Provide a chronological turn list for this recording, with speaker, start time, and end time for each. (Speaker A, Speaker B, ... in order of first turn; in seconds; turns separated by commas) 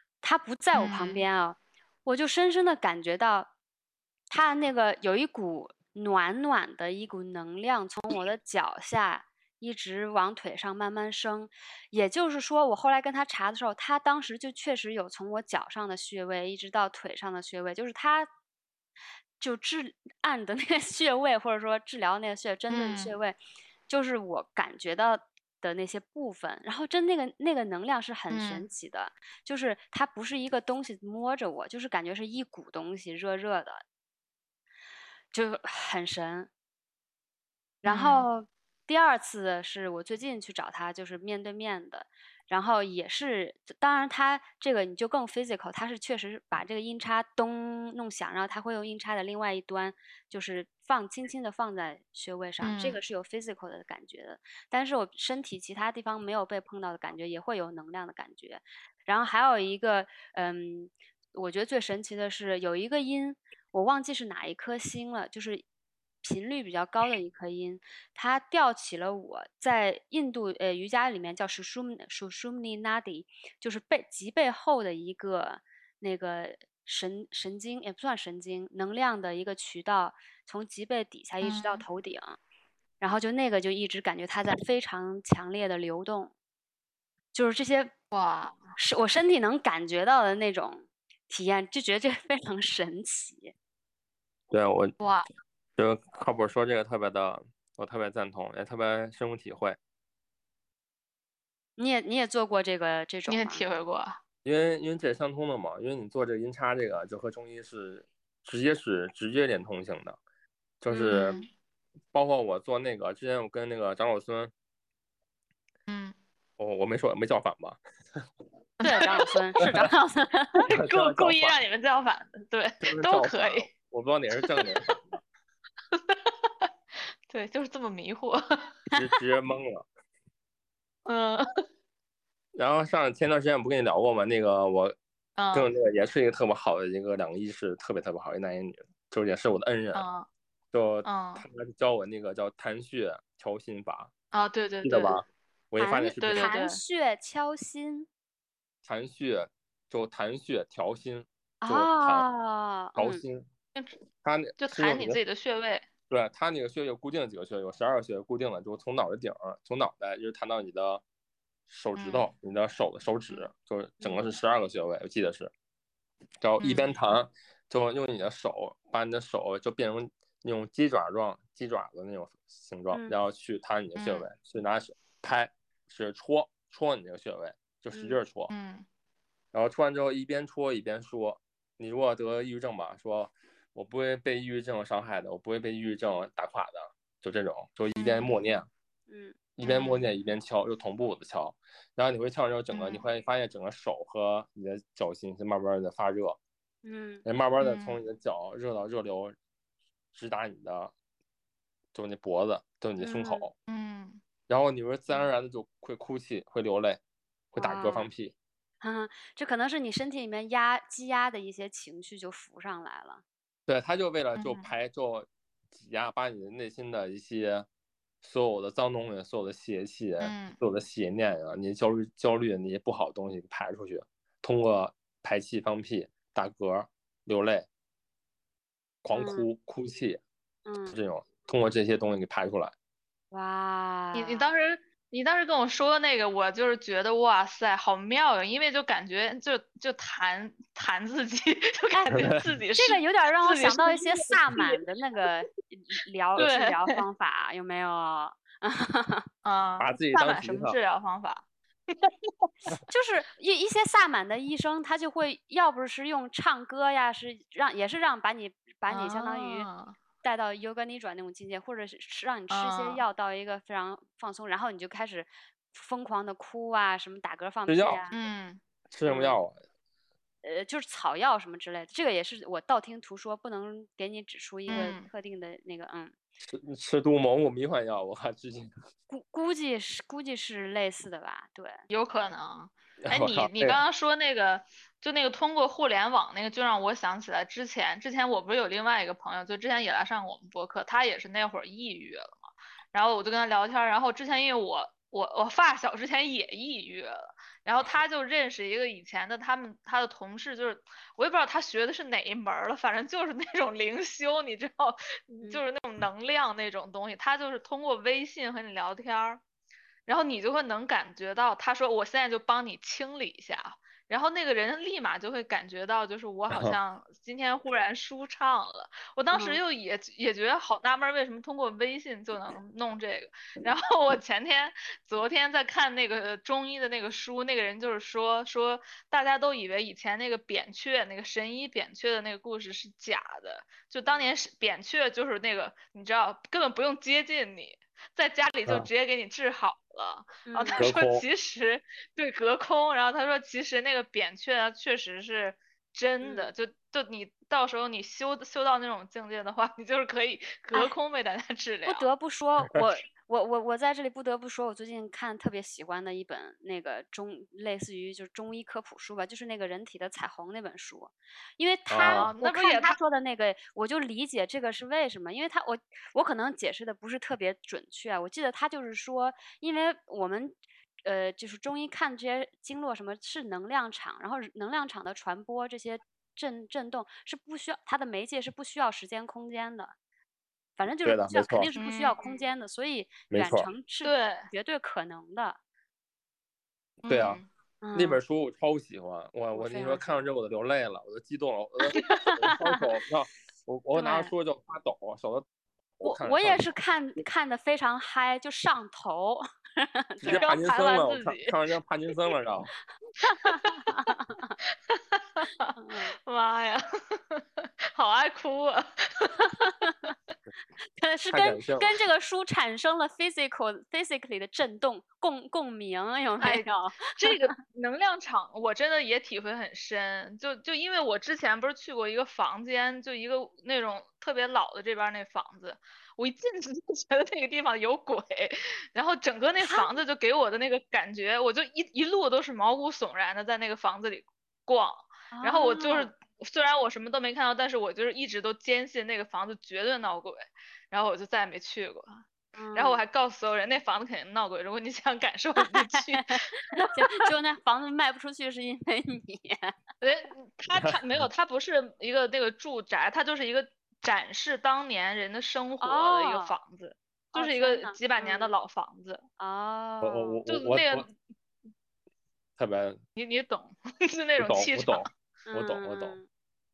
Speaker A: 0.2-3.5, Speaker B: 0.7-1.2, Speaker A: 4.3-18.3, Speaker A: 19.4-23.4, Speaker B: 22.7-23.1, Speaker A: 23.9-33.8, Speaker B: 28.3-28.6, Speaker A: 35.3-36.5, Speaker A: 37.8-65.6, Speaker B: 37.8-38.3, Speaker B: 52.6-53.0, Speaker A: 66.2-82.4, Speaker B: 81.4-81.8, Speaker A: 83.0-86.3, Speaker A: 87.3-87.9, Speaker B: 88.1-88.6, Speaker A: 88.8-93.5, Speaker C: 94.5-94.9, Speaker B: 95.0-95.3, Speaker C: 95.8-99.8, Speaker A: 101.8-103.6, Speaker B: 103.3-104.2, Speaker C: 104.4-110.2, Speaker C: 110.8-111.4, Speaker A: 110.9-111.4, Speaker B: 111.1-111.5, Speaker C: 112.1-114.5, Speaker B: 115.9-116.1, Speaker C: 116.6-118.2, Speaker B: 118.8-119.4, Speaker A: 118.8-120.6, Speaker C: 119.6-119.9, Speaker B: 120.6-123.7, Speaker C: 120.7-121.6, Speaker C: 122.8-125.0, Speaker B: 124.4-124.7, Speaker B: 125.9-126.7, Speaker B: 127.3-128.7, Speaker C: 128.9-129.8, Speaker B: 131.1-131.4, Speaker C: 132.5-134.9, Speaker B: 135.4-135.7, Speaker C: 135.5-140.1, Speaker B: 139.9-140.2, Speaker C: 140.7-144.1, Speaker B: 141.0-141.4, Speaker B: 144.3-145.2, Speaker C: 144.8-146.5, Speaker A: 145.8-148.1, Speaker B: 146.2-146.8, Speaker C: 148.8-152.2, Speaker A: 151.6-153.2, Speaker C: 152.9-153.5, Speaker C: 154.2-155.2, Speaker B: 154.6-155.8, Speaker C: 156.1-161.0, Speaker C: 161.7-165.5, Speaker B: 162.0-162.2, Speaker C: 166.4-178.5, Speaker B: 166.6-166.9, Speaker A: 172.9-173.2, Speaker B: 174.0-174.2, Speaker A: 177.9-178.2, Speaker B: 178.5-178.8, Speaker C: 179.5-188.7, Speaker B: 188.0-188.4, Speaker A: 189.1-189.4, Speaker C: 189.6-196.4, Speaker B: 189.6-190.0, Speaker B: 192.7-193.0, Speaker A: 196.8-197.2, Speaker C: 197.2-199.3, Speaker B: 197.6-198.0, Speaker C: 200.1-200.9, Speaker C: 201.9-203.5, Speaker A: 203.0-203.5, Speaker B: 203.7-204.2, Speaker C: 204.5-207.0, Speaker C: 207.5-208.3, Speaker A: 207.6-208.1, Speaker A: 208.8-213.2, Speaker C: 213.7-217.7, Speaker B: 214.4-214.7, Speaker C: 218.2-227.7, Speaker B: 220.2-220.6, Speaker C: 229.0-230.2, Speaker A: 229.1-229.5, Speaker A: 230.7-231.0, Speaker C: 230.9-232.7, Speaker A: 233.3-234.5, Speaker B: 234.1-244.8, Speaker C: 242.1-242.4, Speaker A: 242.8-249.2, Speaker B: 246.3-247.0, Speaker B: 249.4-252.5, Speaker C: 249.8-250.8, Speaker A: 252.9-259.7, Speaker B: 258.9-260.0, Speaker A: 260.2-268.2, Speaker B: 262.5-263.0, Speaker C: 267.7-268.0, Speaker B: 268.1-268.6, Speaker C: 268.9-269.6, Speaker A: 270.4-276.1, Speaker B: 274.7-275.1, Speaker C: 276.4-278.7, Speaker A: 279.1-281.8, Speaker B: 281.9-309.4, Speaker C: 283.0-283.8, Speaker B: 310.1-352.1, Speaker C: 316.5-316.8, Speaker A: 319.3-319.6, Speaker A: 340.4-340.9, Speaker C: 340.8-341.2, Speaker A: 346.2-346.5, Speaker A: 351.9-379.9, Speaker C: 361.9-362.3, Speaker B: 362.0-363.0, Speaker A: 380.8-385.6, Speaker C: 381.0-381.7, Speaker B: 381.8-382.4, Speaker C: 383.3-383.7, Speaker B: 384.0-384.5, Speaker B: 387.0-387.4, Speaker C: 387.1-387.4, Speaker A: 387.8-388.2, Speaker C: 387.9-395.4, Speaker A: 389.5-390.2, Speaker A: 391.9-392.5, Speaker A: 393.9-394.3, Speaker C: 396.0-396.7, Speaker A: 396.0-400.5, Speaker C: 400.2-402.7, Speaker B: 400.2-401.6, Speaker A: 403.2-404.6, Speaker B: 403.4-403.9, Speaker B: 404.9-407.4, Speaker A: 405.8-406.1, Speaker B: 407.9-409.7, Speaker A: 409.4-410.1, Speaker A: 411.0-417.4, Speaker C: 411.3-411.9, Speaker B: 416.4-442.2, Speaker A: 429.6-429.9, Speaker A: 435.3-436.1, Speaker A: 442.6-443.0, Speaker B: 442.7-447.1, Speaker A: 445.6-449.7, Speaker B: 450.0-459.2, Speaker C: 450.7-451.2, Speaker A: 455.8-456.6, Speaker A: 457.3-458.5, Speaker A: 459.4-460.4, Speaker C: 460.0-461.1, Speaker B: 460.5-461.1, Speaker C: 462.6-463.0, Speaker B: 463.1-465.1, Speaker C: 464.4-466.2, Speaker A: 465.5-466.3